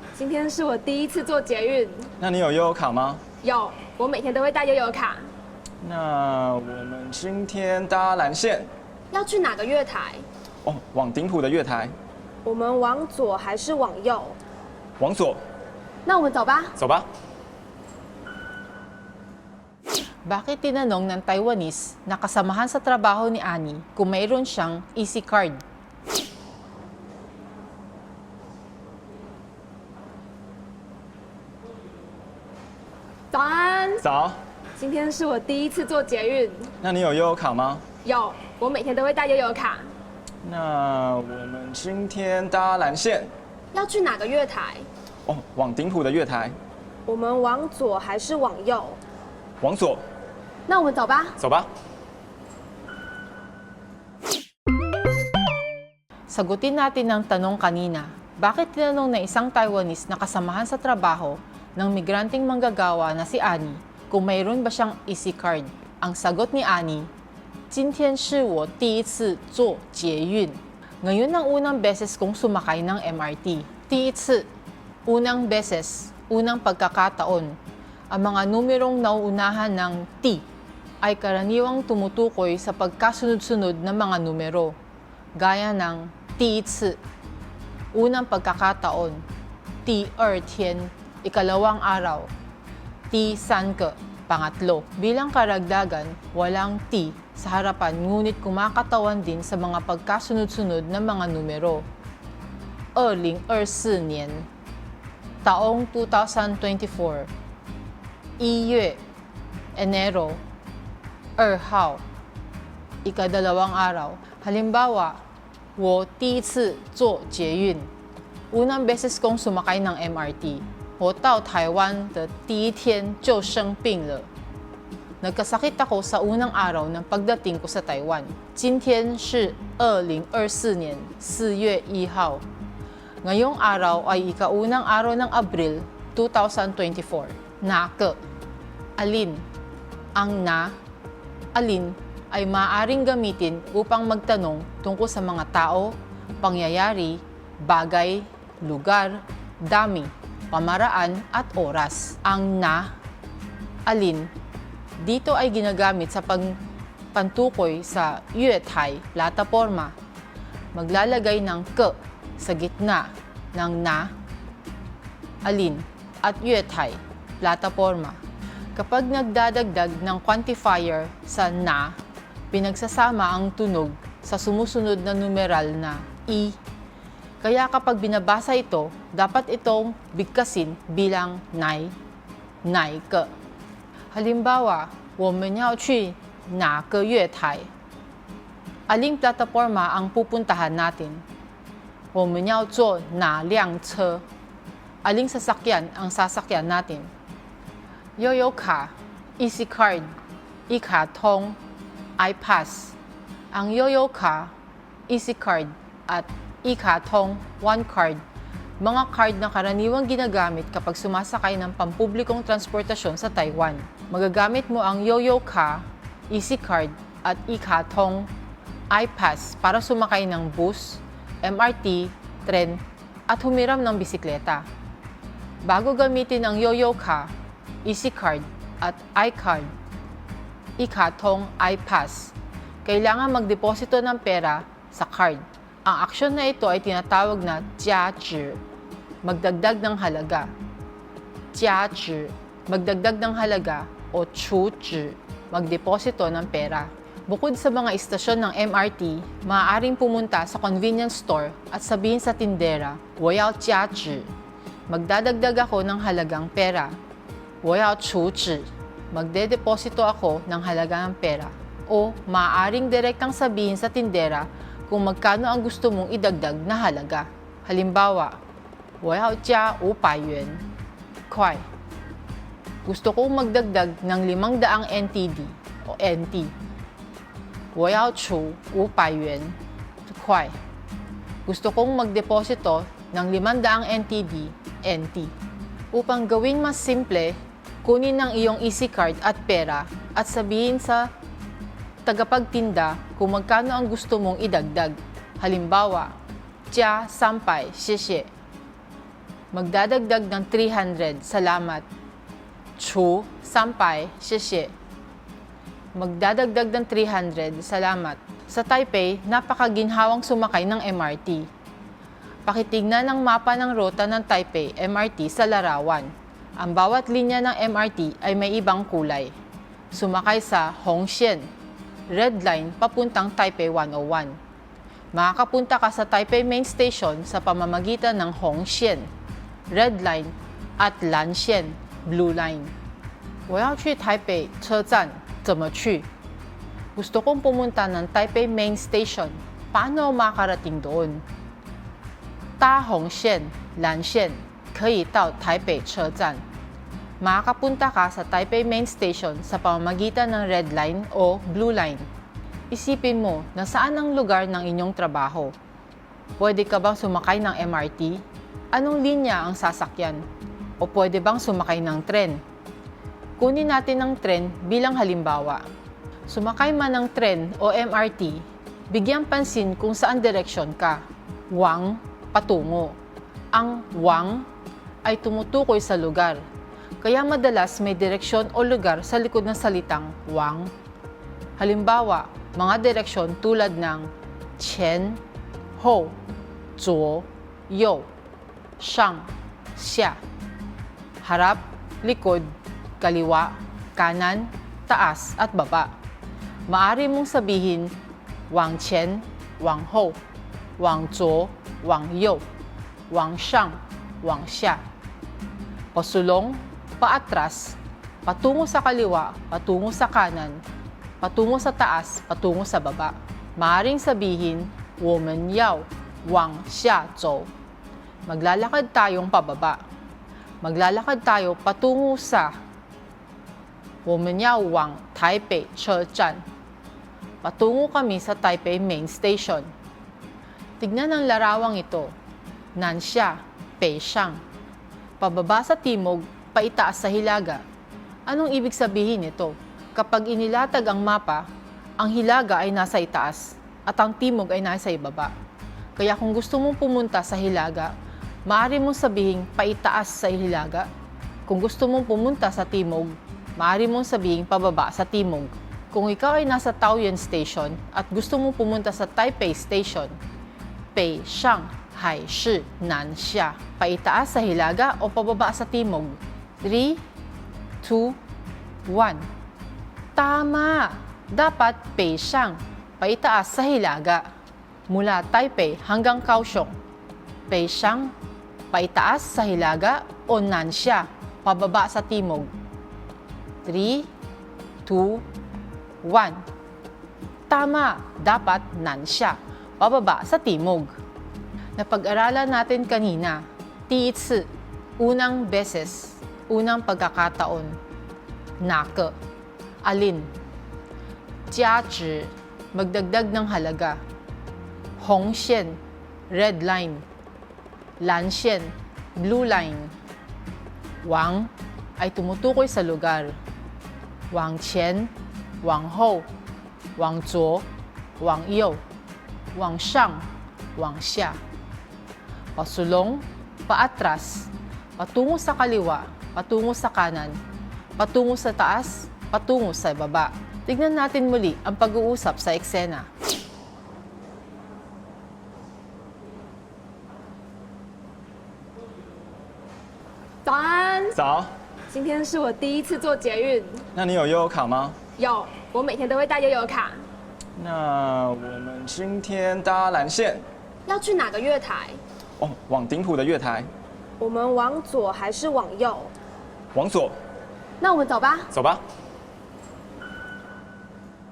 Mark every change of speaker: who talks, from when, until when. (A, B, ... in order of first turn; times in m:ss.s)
0:00.1-0:02.1 A
0:02.2-0:03.2 B
0:03.4-0:05.3 A
0:05.8-0:08.7 B
0:09.1-0:10.2 A
0:10.6-0:12.0 B
0:12.4-0:14.4 A
0:15.0-0:15.4 B
0:16.0-0:16.7 A
0:16.8-0:17.1 B
0:20.2-0:25.6 C
0:33.3-0:34.0 A
0:34.0-0:34.4 B
0:34.8-0:36.7 A
0:36.8-0:37.8 B
0:38.0-0:39.9 A
0:40.4-0:43.3 B
0:43.7-0:44.9 A
0:45.2-0:46.6 B
0:47.1-0:49.0 A
0:49.6-0:50.0 B
0:50.7-0:51.4 A
0:51.4-0:51.7 B
0:56.3-1:07.1 C
1:07.7-1:14.5 C
1:15.0-1:17.6 C
1:18.1-1:20.4 C
1:21.0-1:24.8 C
1:25.4-1:27.0 C
1:27.9-1:29.2 C
1:29.8-1:32.3 C
1:33.1-1:41.8 C
1:42.9-1:44.5 C
1:45.4-1:47.3 C
1:48.4-1:49.0 C
1:49.7-1:50.4 C
1:51.4-1:52.0 C
1:53.0-1:55.2 C
1:55.8-1:57.9 C
1:58.5-2:04.3 C
2:05.2-2:12.4 C
2:13.2-2:18.2 C
2:19.0-2:19.4 C
2:20.1-2:20.8 C
2:21.5-2:32.9 C
2:33.8-2:34.3 C
2:35.0-2:36.6 C
2:37.1-2:39.9 C
2:40.7-2:44.1 C
2:45.4-2:48.2 C
2:48.7-2:52.0 C
2:52.5-2:56.6 C
2:57.4-3:01.9 C
3:02.6-3:03.3 C
3:04.1-3:07.7 C
3:08.9-3:11.2 C
3:12.1-3:14.2 C
3:15.0-3:17.1 C
3:18.2-3:20.1 C
3:20.7-3:21.6 C
3:22.2-3:22.9 C
3:23.5-3:24.5 C
3:25.1-3:28.2 C
3:28.8-3:38.3 C
3:38.9-3:44.7 C
3:45.6-3:47.3 C
3:47.8-3:49.7 C
3:50.8-3:58.6 C
3:59.2-4:00.5 C
4:01.5-4:14.3 C
4:14.9-4:17.0 C
4:17.6-4:28.4 C
4:29.0-4:30.6 C
4:31.3-4:31.6 C
4:32.8-4:36.5 C
4:37.7-4:40.5 C
4:41.4-4:45.3 C
4:45.9-4:51.1 C
4:52.0-4:56.2 C
4:56.7-4:58.3 C
4:59.5-5:01.8 C
5:02.8-5:04.7 C
5:05.9-5:11.5 C
5:12.4-5:19.3 C
5:19.9-5:21.5 C
5:22.1-5:24.4 C
5:25.1-5:29.1 C
5:29.7-5:32.7 C
5:33.5-5:36.1 C
5:36.9-5:41.2 C
5:42.6-5:46.4 C
5:47.2-5:52.0 C
5:52.7-5:55.5 C
5:56.4-6:00.2 C
6:00.8-6:02.4 C
6:03.4-6:05.6 C
6:06.3-6:13.0 C
6:13.5-6:14.5 C
6:15.0-6:16.4 C
6:17.0-6:20.7 C
6:21.6-6:25.2 C
6:25.8-6:26.2 C
6:26.8-6:28.1 C
6:28.8-6:30.2 C
6:31.2-6:35.9 C
6:36.7-6:37.9 C
6:38.5-6:40.2 C
6:40.8-6:42.4 C
6:43.1-6:44.8 C
6:45.9-6:50.6 C
6:51.2-6:57.5 C
6:58.3-6:59.8 C
7:00.6-7:02.6 C
7:04.0-7:06.4 C
7:07.4-7:09.7 C
7:10.8-7:12.1 C
7:12.8-7:14.4 C
7:15.2-7:17.6 C
7:18.2-7:25.3 C
7:26.0-7:27.9 C
7:28.4-7:30.9 C
7:31.5-7:40.2 C
7:40.9-7:47.0 C
7:47.8-7:48.2 C
7:48.8-7:49.2 C
7:50.1-7:54.3 C
7:54.9-7:56.7 C
7:57.5-7:58.1 C
7:58.7-8:02.5 C
8:03.6-8:04.1 C
8:04.8-8:05.2 C
8:06.0-8:06.4 C
8:07.5-8:11.0 C
8:11.8-8:17.8 C
8:18.6-8:19.2 C
8:19.8-8:20.3 C
8:21.5-8:24.0 C
8:25.0-8:27.0 C
8:28.0-8:29.9 C
8:31.0-8:33.4 C
8:34.3-8:35.1 C
8:35.6-8:36.3 C
8:37.0-8:37.7 C
8:38.2-8:38.8 C
8:39.6-8:41.4 C
8:42.6-8:47.4 C
8:48.0-8:53.1 C
9:00.4-9:01.2 A
9:01.1-9:01.5 B
9:01.9-9:03.8 A
9:03.9-9:05.0 B
9:05.2-9:07.0 A
9:07.6-9:10.5 B
9:10.8-9:12.0 A
9:12.4-9:13.7 B
9:14.2-9:16.1 A
9:16.7-9:17.2 B
9:17.8-9:18.5 A
9:18.5-9:18.8 B